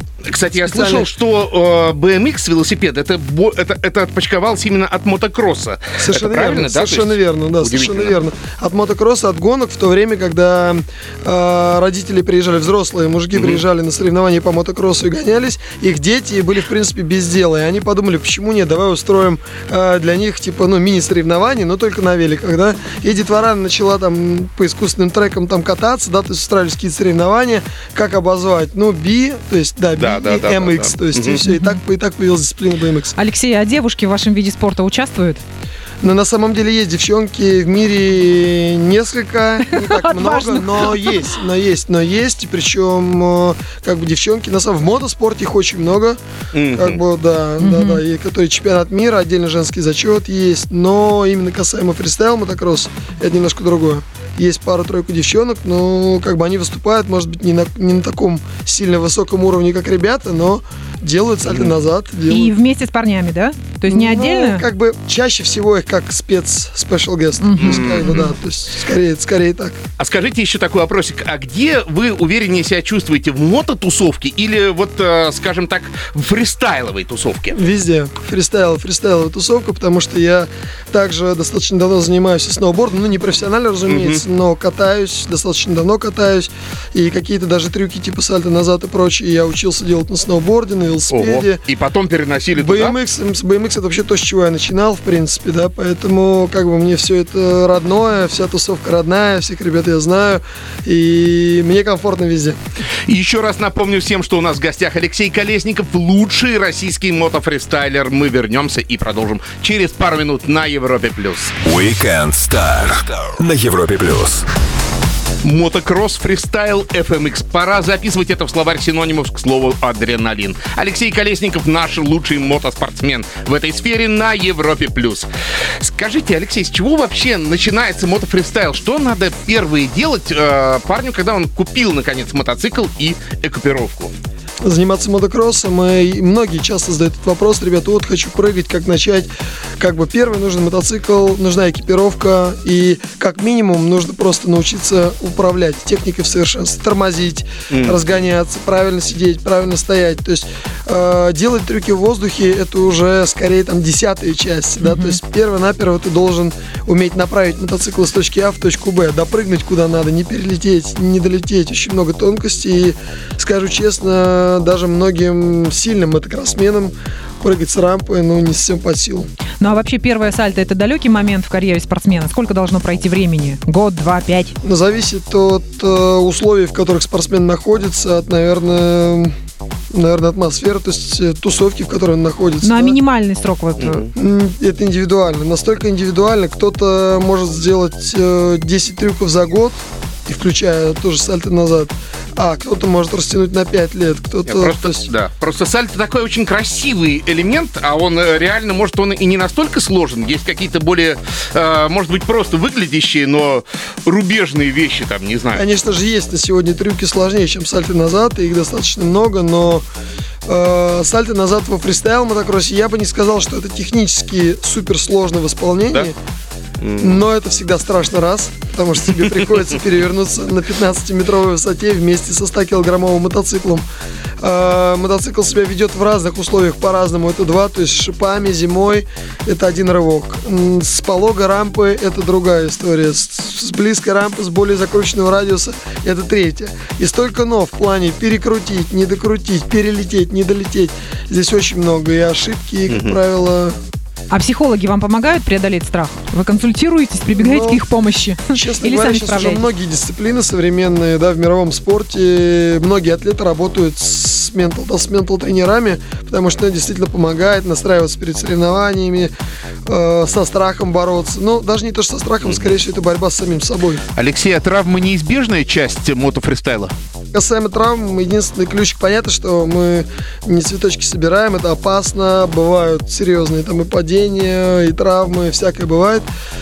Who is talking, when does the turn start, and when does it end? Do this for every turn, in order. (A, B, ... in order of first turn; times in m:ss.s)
0:00.3-0:08.2 A
0:00.5-0:01.1 B
0:06.0-0:33.1 B
0:13.4-0:13.6 A
0:30.0-0:31.4 A
0:31.4-0:31.8 C
0:33.2-0:35.4 C
0:36.0-0:46.2 B
0:39.6-0:41.3 C
0:46.5-0:47.0 A
0:46.7-1:02.5 B
0:47.6-0:48.0 C
1:02.3-1:04.6 C
1:03.9-1:09.8 B
1:07.4-1:08.3 C
1:07.6-1:08.2 A
1:10.0-1:17.6 A
1:17.5-1:31.6 B
1:23.9-1:24.2 A
1:31.1-1:33.0 A
1:32.6-1:42.6 B
1:43.1-1:51.5 A
1:51.6-1:54.4 D
1:55.4-2:05.3 A
2:05.8-2:14.1 A
2:14.6-2:49.3 B
2:27.7-2:28.0 A
2:34.8-2:35.2 C
2:49.6-2:54.5 C
2:54.6-2:59.4 B
2:59.9-3:03.0 B
3:02.6-3:04.1 C
3:03.8-3:04.1 A
3:04.2-3:15.1 B
3:14.5-3:25.6 A
3:25.5-3:29.9 B
3:30.5-3:36.2 B
3:36.8-3:37.2 A
3:37.0-3:43.9 B
3:44.4-4:03.8 B
4:02.9-4:03.2 A
4:04.3-4:09.7 C
4:07.4-4:07.8 B
4:08.5-4:19.3 B
4:19.9-4:24.0 B
4:24.2-4:26.9 A
4:27.3-4:36.3 B